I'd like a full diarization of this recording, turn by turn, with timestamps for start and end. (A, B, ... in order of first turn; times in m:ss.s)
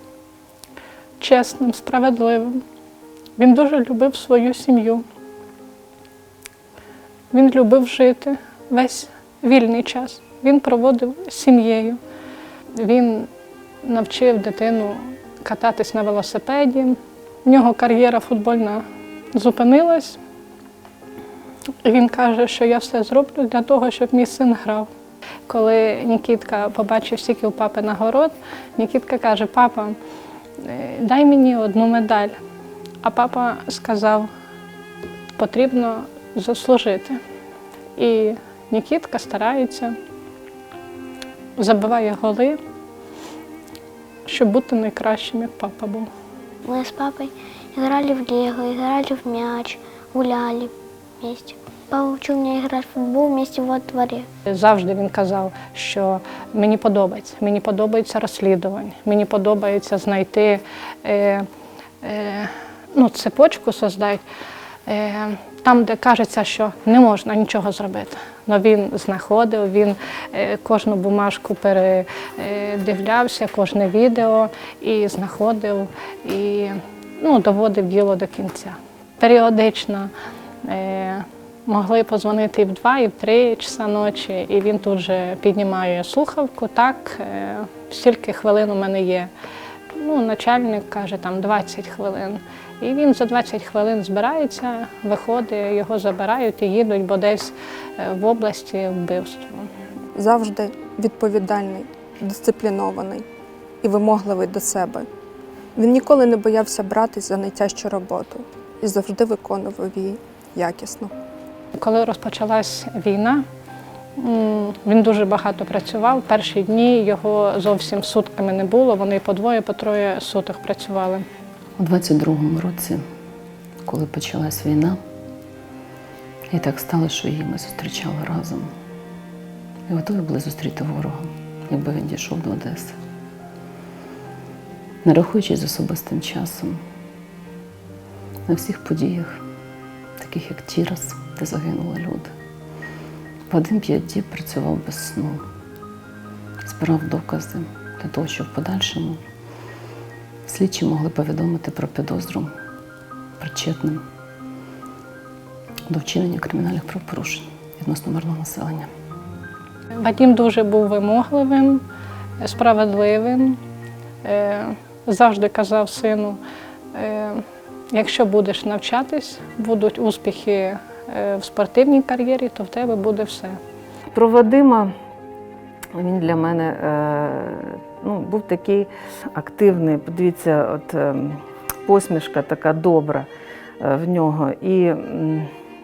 0:01.2-0:02.6 A
0:03.4-0:05.0 A
0:07.3-0:12.0 A
0:12.7-0:13.3 A
0:13.8-0:18.8 A
0:19.3-0:20.2 A
0:21.8-0:24.9 A
0:25.5-0:30.0 A
0:30.6-0:32.4 A
0:33.0-0:34.3 A
0:35.4-0:37.2 A
0:38.0-0:40.0 A
0:41.6-0:42.6 A
0:44.3-0:46.1 A
0:46.6-0:54.3 B
0:54.5-1:01.5 A
1:02.0-1:04.2 A
1:04.9-1:20.1 A
1:20.6-1:29.3 A
1:29.9-1:39.7 A
1:40.2-1:43.2 C
1:43.8-1:45.1 C
1:45.8-1:51.1 C
1:51.8-1:53.4 A
1:54.2-2:01.2 A
2:01.8-2:03.0 D
2:03.8-2:05.0 D
2:06.5-2:08.7 D
2:09.9-2:13.0 D
2:15.0-2:16.8 D
2:18.5-2:19.4 D
2:20.2-2:22.3 D
2:23.5-2:25.4 D
2:26.6-2:29.2 D
2:30.5-2:32.5 D
2:33.4-2:34.0 D
2:35.9-2:38.9 D
2:40.0-2:41.8 A
2:42.4-2:43.6 A
2:44.2-2:46.4 A
2:46.9-2:53.6 A
2:54.1-2:54.9 E
2:56.0-3:03.3 E
3:03.8-3:05.5 E